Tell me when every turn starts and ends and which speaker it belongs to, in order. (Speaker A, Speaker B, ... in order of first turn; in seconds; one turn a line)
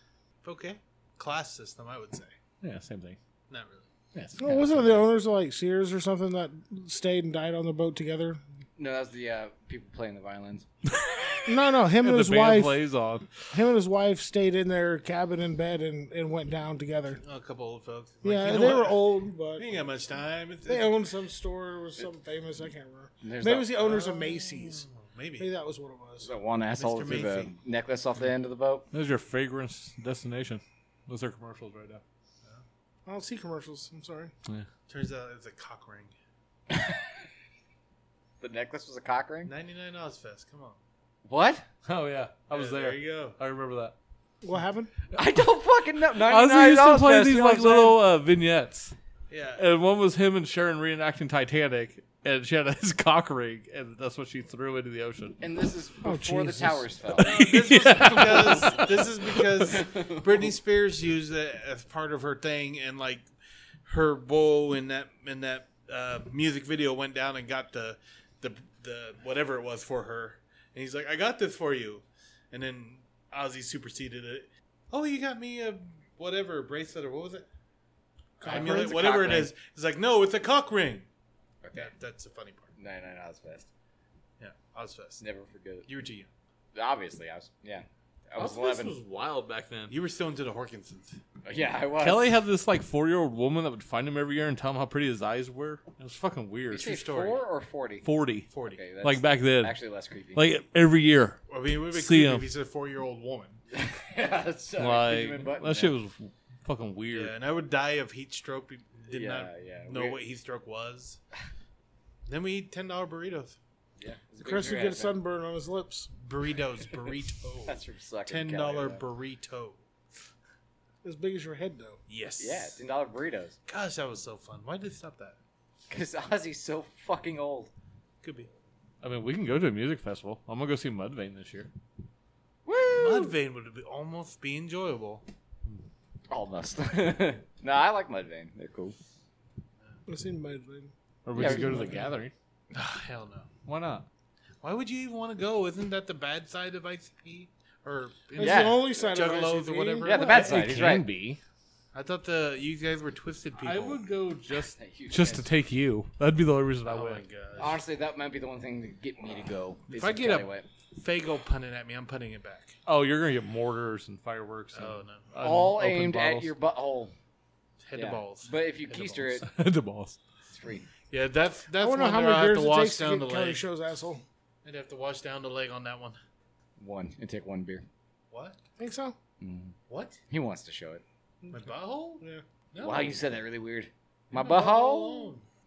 Speaker A: 0.4-2.3
Speaker B: 2.6-3.2
Speaker A: 3.5-3.9
Speaker B: 4.1-5.0
Speaker C: 4.4-8.4
Speaker D: 8.8-10.7
Speaker C: 11.4-12.8
Speaker B: 12.0-13.3
Speaker C: 13.5-17.2
Speaker A: 17.2-21.0
Speaker C: 18.2-19.6
Speaker C: 20.7-24.8
Speaker D: 23.2-23.9
Speaker A: 23.8-25.5
Speaker C: 25.4-26.3
Speaker D: 26.2-28.8
Speaker A: 26.8-27.5
Speaker B: 28.9-32.0
Speaker C: 33.0-34.3
Speaker A: 34.9-36.1
Speaker D: 36.7-37.0
Speaker D: 38.4-39.5
Speaker A: 39.5-40.8
Speaker D: 41.2-41.6
Speaker B: 41.8-43.9
Speaker A: 42.5-43.4
Speaker C: 44.4-44.9
Speaker D: 45.1-48.0
Speaker B: 46.2-48.9
Speaker A: 49.3-49.6
Speaker B: 49.6-55.4
Speaker D: 55.4-57.4
Speaker C: 56.0-56.9
Speaker B: 57.2-59.7
Speaker A: 57.2-63.2
Speaker D: 58.1-58.8
Speaker D: 59.7-60.5
Speaker A: 63.8-77.5
Speaker C: 78.4-79.4
Speaker A: 78.4-81.1
Speaker D: 78.4-79.5
Speaker D: 81.6-81.9
Speaker A: 81.7-82.7
Speaker D: 82.8-83.7
Speaker A: 84.4-85.2
Speaker D: 85.2-85.9
Speaker A: 85.8-86.3
Speaker D: 86.7-89.0
Speaker B: 88.4-89.9
Speaker A: 89.9-91.2
Speaker D: 91.4-92.3
Speaker B: 92.0-96.9
Speaker D: 96.7-98.1
Speaker A: 96.8-97.4
Speaker B: 98.0-98.5
Speaker A: 98.5-98.8
Speaker D: 98.7-100.5
Speaker B: 99.0-99.7
Speaker B: 100.3-102.5
Speaker A: 101.5-103.6
Speaker D: 103.7-105.9
Speaker B: 104.8-107.3
Speaker A: 107.1-111.2
Speaker D: 109.1-110.2
Speaker A: 112.3-113.6
Speaker D: 114.0-115.2
Speaker C: 114.4-116.1
Speaker A: 116.2-119.8
Speaker D: 117.6-119.0
Speaker C: 121.0-122.0
Speaker A: 122.1-122.8
Speaker D: 122.4-123.5
Speaker A: 123.7-125.4
Speaker D: 125.9-127.7
Speaker A: 128.2-128.5
Speaker B: 129.0-131.7
Speaker D: 132.7-133.3
Speaker A: 132.9-135.2
Speaker D: 136.3-138.9
Speaker C: 140.1-141.9
Speaker B: 141.2-142.3
Speaker D: 141.4-142.0
Speaker A: 142.7-143.5
Speaker B: 143.7-144.1
Speaker A: 144.6-150.7
Speaker C: 148.3-150.2
Speaker D: 148.4-149.1
Speaker D: 150.0-151.1
Speaker B: 150.2-151.4
Speaker A: 151.9-154.0
Speaker B: 153.6-157.2
Speaker D: 154.7-155.5
Speaker A: 156.8-157.8
Speaker D: 157.6-160.7
Speaker A: 159.9-162.8
Speaker B: 162.8-166.5
Speaker A: 164.7-165.3
Speaker D: 165.4-167.1
Speaker A: 167.8-169.4
Speaker D: 167.9-169.5
Speaker B: 169.4-170.2
Speaker D: 170.5-170.9
Speaker A: 171.1-173.6
Speaker C: 171.8-174.2
Speaker A: 174.6-176.2
Speaker D: 176.8-177.8
Speaker A: 178.3-178.6
Speaker C: 178.8-179.2
Speaker D: 179.4-179.7
Speaker A: 179.9-180.2
Speaker D: 180.3-181.0
Speaker C: 181.4-182.4
Speaker A: 181.5-183.2
Speaker D: 182.8-185.3
Speaker A: 184.3-185.4